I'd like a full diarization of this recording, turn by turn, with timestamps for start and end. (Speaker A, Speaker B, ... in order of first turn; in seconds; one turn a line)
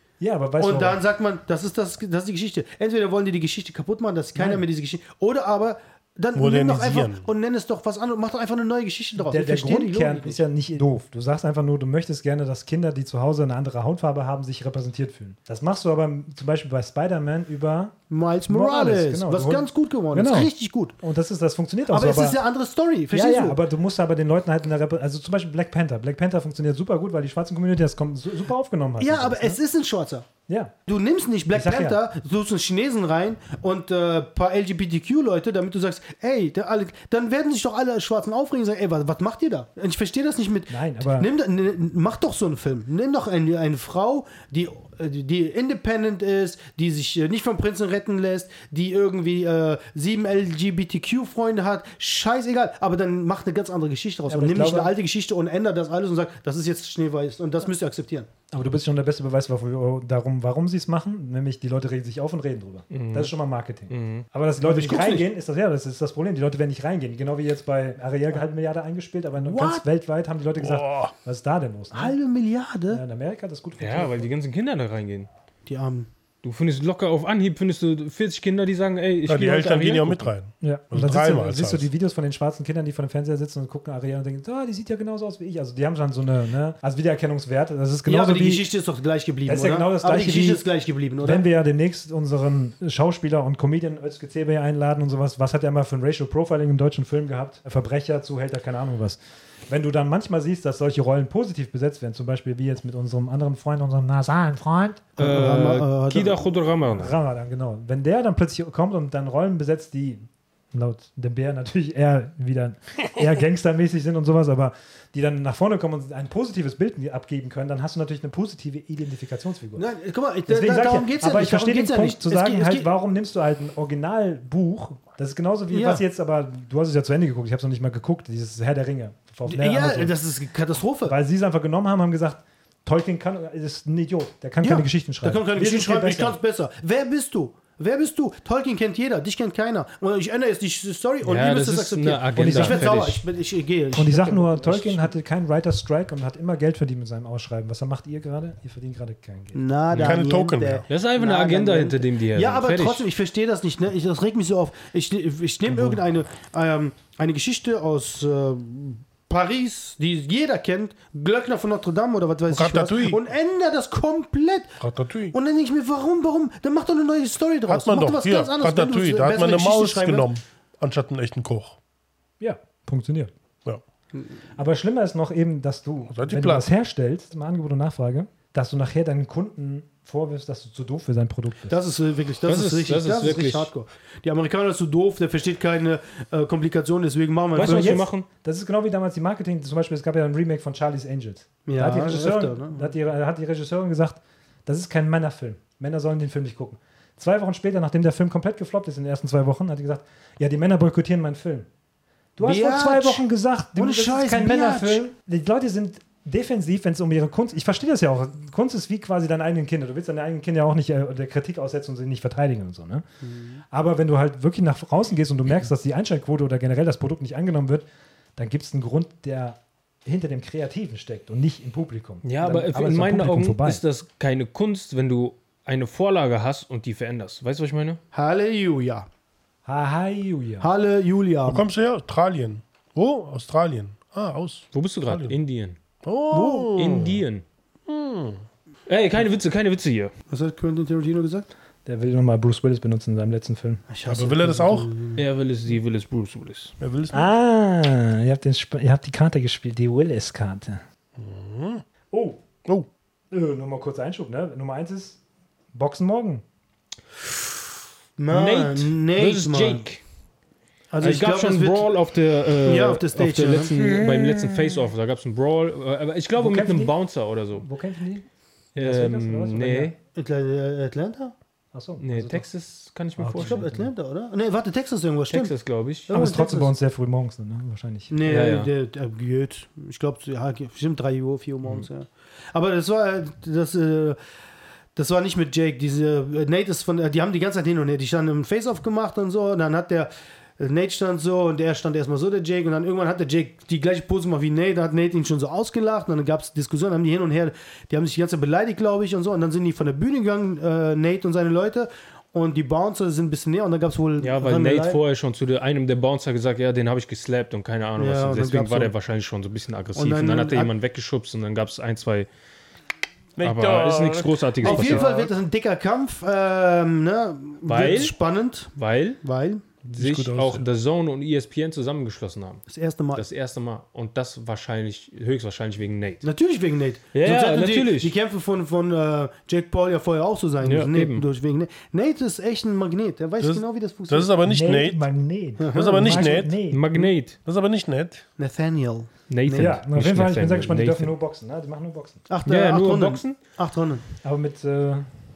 Speaker A: 0.2-1.0
Speaker B: 0.6-10.4
Speaker A: 4.4-4.6
Speaker C: 6.3-7.3
Speaker A: 9.2-22.4
Speaker B: 18.1-21.0
Speaker B: 21.9-23.6
Speaker A: 23.1-29.6
Speaker B: 29.0-30.3
Speaker A: 30.5-30.7
Speaker B: 30.9-58.3
Speaker A: 31.5-32.0
Speaker A: 40.7-41.3
Speaker A: 54.3-54.9
Speaker A: 58.5-72.2
Speaker D: 62.9-63.3
Speaker D: 63.9-64.3
Speaker B: 64.6-65.3
Speaker B: 69.5-69.8
Speaker C: 70.6-71.1
Speaker B: 71.9-73.0
Speaker A: 72.9-74.3
Speaker D: 73.8-75.3
Speaker B: 75.7-76.1
Speaker D: 76.4-80.3
Speaker C: 79.3-81.9
Speaker A: 80.6-88.7
Speaker B: 88.1-91.4
Speaker A: 89.5-90.6
Speaker A: 91.2-105.1
Speaker B: 105.2-106.4
Speaker D: 105.2-107.2
Speaker A: 106.9-119.9
Speaker B: 119.8-122.9
Speaker A: 120.5-130.2
Speaker B: 125.7-126.0
Speaker B: 129.5-131.2
Speaker A: 131.1-136.4
Speaker B: 134.6-145.1
Speaker D: 141.2-143.2
Speaker A: 142.3-143.1
Speaker A: 143.9-149.6
Speaker B: 149.5-164.8
Speaker D: 149.9-150.2
Speaker C: 150.0-150.8
Speaker D: 150.9-153.1
Speaker C: 162.5-163.2
Speaker C: 164.8-165.3
Speaker B: 165.3-170.3
Speaker C: 167.7-171.8
Speaker A: 172.4-173.3
Speaker A: 174.6-181.8
Speaker C: 176.1-176.7
Speaker B: 181.7-188.0
Speaker D: 182.4-183.7
Speaker D: 187.6-188.3
Speaker A: 187.6-201.7
Speaker B: 191.7-192.9
Speaker A: 202.4-213.0
Speaker B: 202.4-203.2
Speaker B: 203.8-205.0
Speaker B: 213.2-213.6
Speaker A: 213.7-217.8
Speaker A: 218.4-223.8
Speaker D: 222.2-228.0
Speaker B: 228.1-229.1
Speaker A: 229.7-230.7
Speaker B: 230.6-231.6
Speaker C: 231.5-235.4
Speaker D: 234.7-235.8
Speaker C: 236.0-237.2
Speaker B: 236.3-236.7
Speaker D: 236.8-237.4
Speaker C: 237.9-238.4
Speaker D: 238.9-240.1
Speaker B: 240.3-241.5
Speaker A: 241.8-243.8
Speaker B: 243.9-245.2
Speaker C: 244.1-244.9
Speaker D: 245.2-246.8
Speaker C: 246.8-247.3
Speaker A: 247.1-250.8
Speaker C: 251.2-251.8
Speaker A: 252.1-252.4
Speaker A: 253.3-255.2
Speaker A: 255.7-256.4
Speaker B: 258.2-259.9
Speaker D: 258.3-260.0
Speaker B: 260.9-261.9
Speaker D: 261.0-267.7
Speaker B: 262.6-263.8
Speaker A: 266.4-266.9
Speaker A: 267.6-269.9
Speaker D: 268.8-270.0
Speaker B: 270.1-271.3
Speaker A: 271.7-272.4
Speaker D: 272.0-273.6
Speaker A: 273.2-273.9
Speaker B: 273.4-275.5
Speaker D: 275.3-276.1
Speaker B: 276.1-276.7
Speaker A: 276.1-278.2
Speaker B: 278.1-284.2
Speaker D: 278.3-278.7
Speaker B: 284.9-305.0
Speaker D: 304.2-312.3
Speaker B: 308.0-308.9
Speaker B: 310.0-310.7
Speaker C: 313.4-315.3
Speaker D: 313.4-315.1
Speaker B: 314.6-319.6
Speaker D: 317.7-318.2
Speaker D: 318.7-319.2
Speaker D: 319.9-326.2
Speaker A: 319.9-320.6
Speaker B: 322.7-323.2
Speaker B: 326.2-334.3
Speaker D: 327.1-328.1
Speaker D: 330.6-331.2
Speaker C: 333.4-335.1
Speaker A: 334.4-337.1
Speaker B: 335.6-336.2
Speaker C: 335.7-336.6
Speaker D: 336.7-337.4
Speaker C: 337.4-338.2
Speaker B: 338.4-339.8
Speaker D: 339.3-341.1
Speaker A: 339.5-342.2
Speaker B: 342.3-344.0
Speaker D: 342.5-343.4
Speaker A: 344.2-345.1